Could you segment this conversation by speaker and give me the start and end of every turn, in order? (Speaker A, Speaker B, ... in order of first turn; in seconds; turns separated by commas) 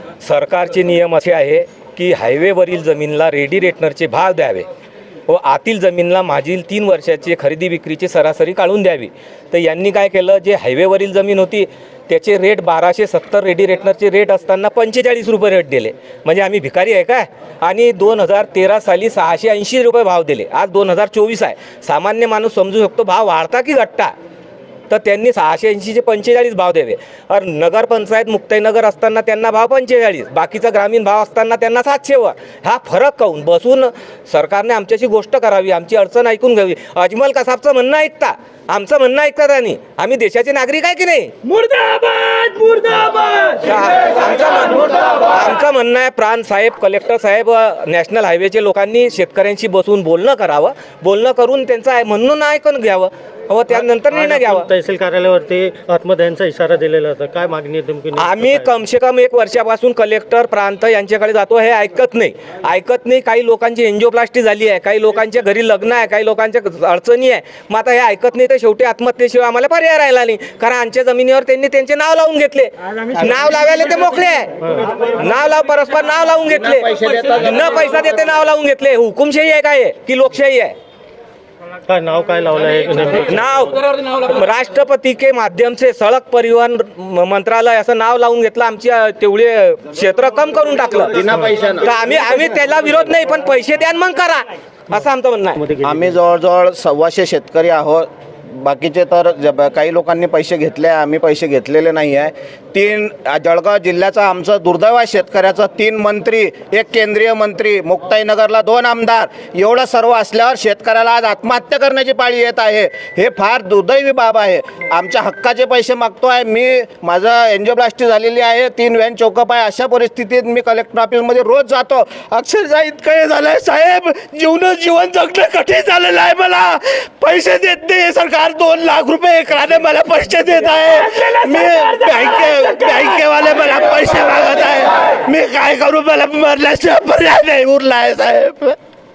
Speaker A: 0.2-4.7, Speaker A: 5.3-24.1, Speaker A: 24.9-41.3, Speaker B: 41.5-43.6, Speaker A: 43.6-54.7, Speaker C: 54.1-58.6, Speaker A: 58.1-80.7, Speaker D: 76.9-77.3, Speaker C: 81.9-83.4, Speaker A: 83.2-91.2, Speaker D: 91.1-91.9, Speaker A: 91.8-95.6, Speaker C: 95.6-96.2, Speaker D: 95.8-138.8, Speaker B: 130.7-133.2